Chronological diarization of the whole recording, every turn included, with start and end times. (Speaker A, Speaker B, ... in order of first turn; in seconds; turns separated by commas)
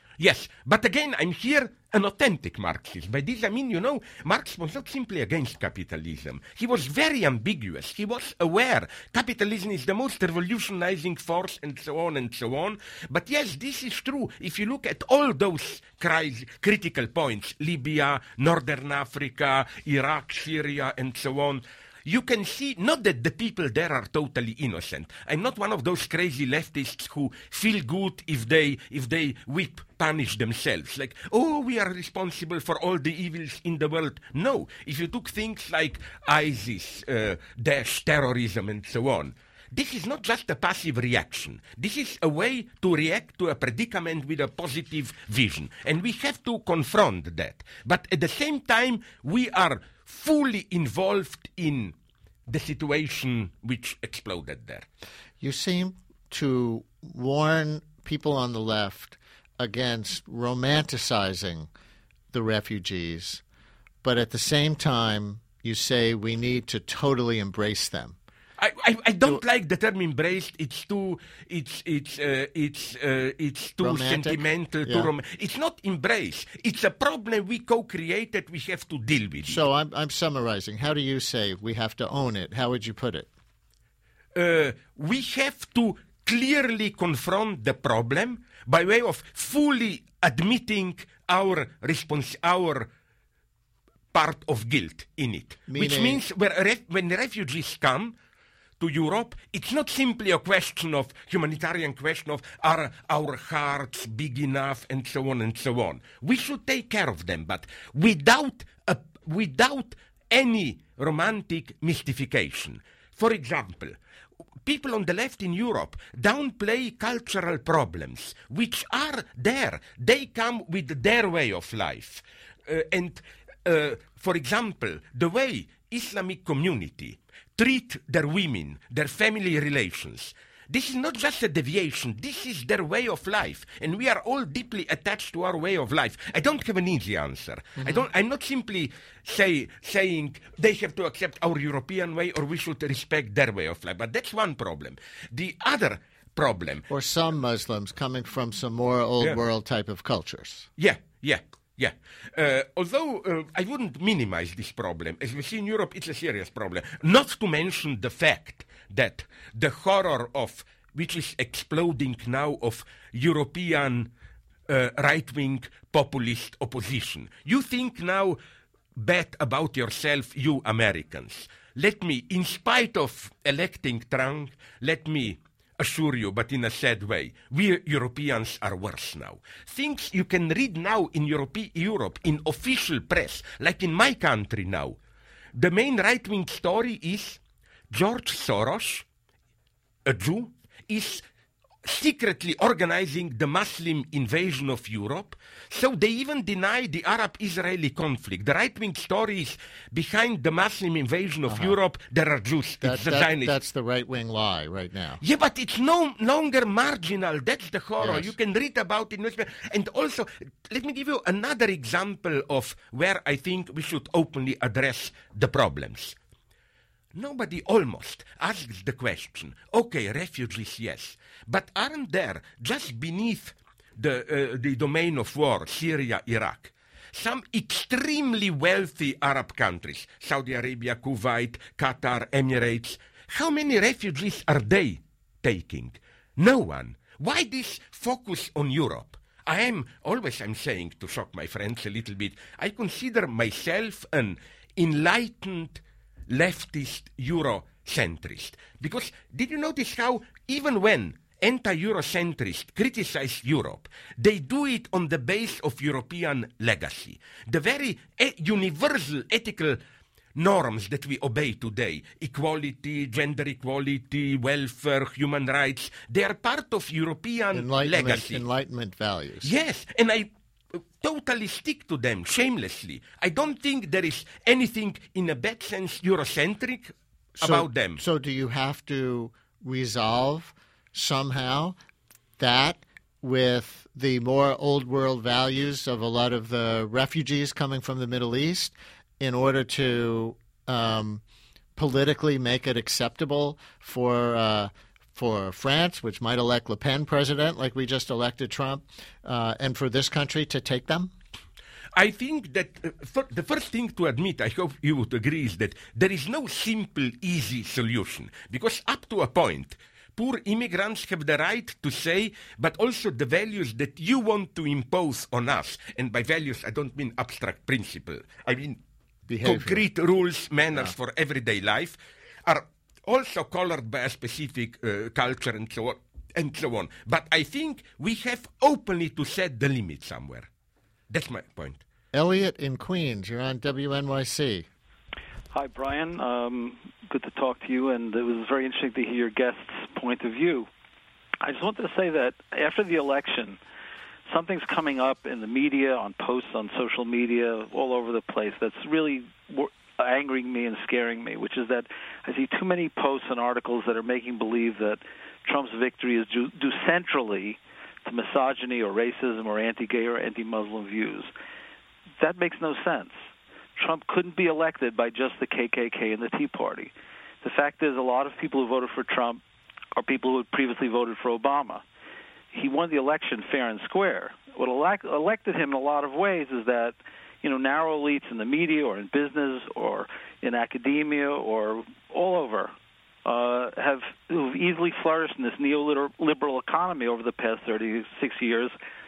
Speaker A: 0.2-52.0, Speaker A: 52.5-54.9, Speaker B: 55.4-61.7, Speaker B: 62.3-63.4, Speaker B: 64.0-68.2, Speaker A: 68.6-79.6, Speaker B: 73.8-75.1, Speaker B: 79.4-83.3, Speaker A: 84.3-92.9, Speaker A: 94.1-98.2, Speaker B: 95.7-96.2, Speaker A: 98.8-114.0, Speaker A: 114.6-146.9, Speaker B: 146.9-150.7, Speaker A: 150.8-164.1, Speaker A: 164.7-168.4, Speaker A: 169.0-185.0, Speaker A: 185.6-189.1, Speaker A: 190.1-191.2, Speaker A: 191.8-203.5, Speaker B: 201.5-201.8, Speaker B: 202.8-205.2, Speaker A: 205.2-216.2, Speaker B: 208.0-208.3, Speaker A: 217.2-259.8, Speaker A: 260.4-268.4, Speaker B: 267.5-269.5, Speaker A: 269.4-278.0, Speaker B: 277.4-281.8, Speaker B: 282.4-291.2, Speaker B: 291.8-301.1, Speaker A: 302.0-318.8, Speaker B: 319.3-319.9, Speaker A: 319.4-330.5, Speaker A: 331.1-331.8, Speaker B: 332.1-334.7, Speaker C: 335.5-340.7, Speaker C: 341.4-343.6, Speaker C: 344.3-361.3, Speaker C: 362.2-363.2, Speaker C: 363.8-369.4, Speaker C: 370.0-371.8, Speaker C: 372.5-382.7, Speaker C: 383.2-388.7